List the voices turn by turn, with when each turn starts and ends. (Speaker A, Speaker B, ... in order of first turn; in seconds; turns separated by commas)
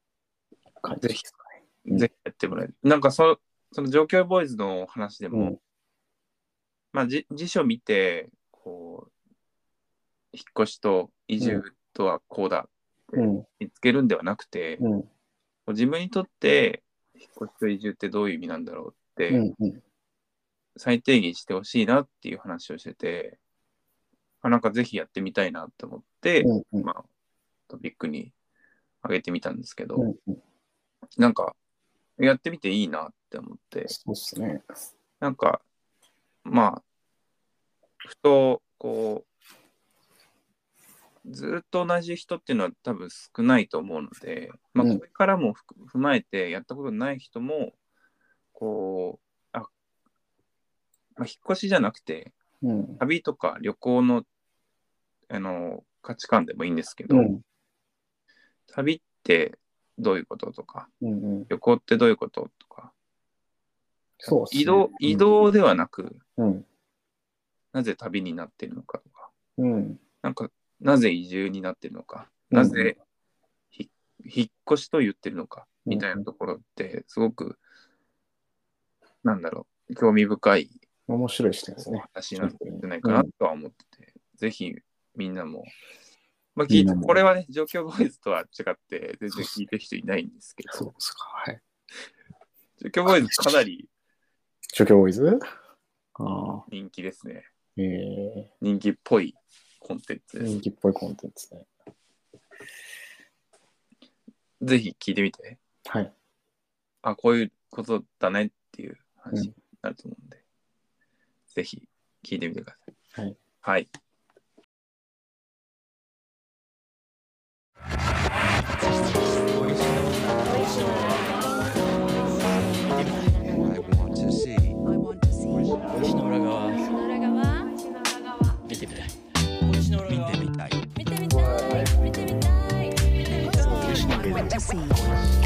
Speaker A: 0.8-2.1, Speaker B: 1.9-5.5, Speaker A: 5.3-5.6, Speaker B: 6.9-9.1, Speaker B: 10.3-14.8, Speaker A: 13.2-13.4, Speaker A: 14.8-15.1, Speaker B: 15.7-19.4, Speaker A: 19.3-19.8, Speaker B: 20.8-23.4, Speaker B: 24.4-27.0, Speaker A: 26.4-26.9, Speaker B: 27.7-28.3, Speaker B: 29.0-30.1, Speaker A: 30.0-30.4, Speaker B: 31.2-31.6, Speaker B: 32.2-33.9, Speaker A: 33.9-34.6, Speaker B: 35.2-35.6, Speaker B: 36.4-36.8, Speaker B: 38.0-39.3, Speaker B: 41.2-47.7, Speaker A: 44.8-45.0, Speaker B: 48.5-49.7, Speaker B: 51.2-52.3, Speaker A: 52.6-53.0, Speaker B: 53.0-54.2, Speaker B: 55.3-57.3, Speaker A: 57.1-57.4, Speaker B: 58.7-60.9, Speaker A: 61.0-61.5, Speaker B: 61.5-62.9, Speaker A: 64.2-65.3, Speaker B: 64.3-66.2, Speaker A: 66.4-66.7, Speaker B: 67.7-69.3, Speaker A: 69.6-70.0, Speaker B: 70.2-73.0, Speaker A: 72.5-72.9, Speaker B: 73.7-77.6, Speaker A: 75.8-76.2, Speaker B: 79.2-80.8, Speaker A: 81.1-83.3, Speaker B: 81.8-85.7, Speaker B: 86.5-90.9, Speaker A: 86.7-87.2, Speaker A: 90.7-91.6, Speaker B: 92.8-93.9, Speaker A: 93.0-93.6, Speaker A: 94.7-95.4, Speaker A: 96.2-96.7, Speaker B: 96.7-97.5, Speaker A: 97.8-98.5, Speaker B: 98.6-100.5, Speaker A: 100.4-101.7, Speaker B: 104.6-105.6, Speaker A: 105.8-106.1, Speaker B: 107.0-110.4, Speaker B: 111.5-112.8, Speaker B: 113.6-113.9, Speaker C: 119.6-120.4, Speaker C: 125.9-126.7, Speaker D: 127.1-127.7, Speaker C: 129.7-130.4, Speaker D: 131.4-131.9, Speaker D: 133.5-134.9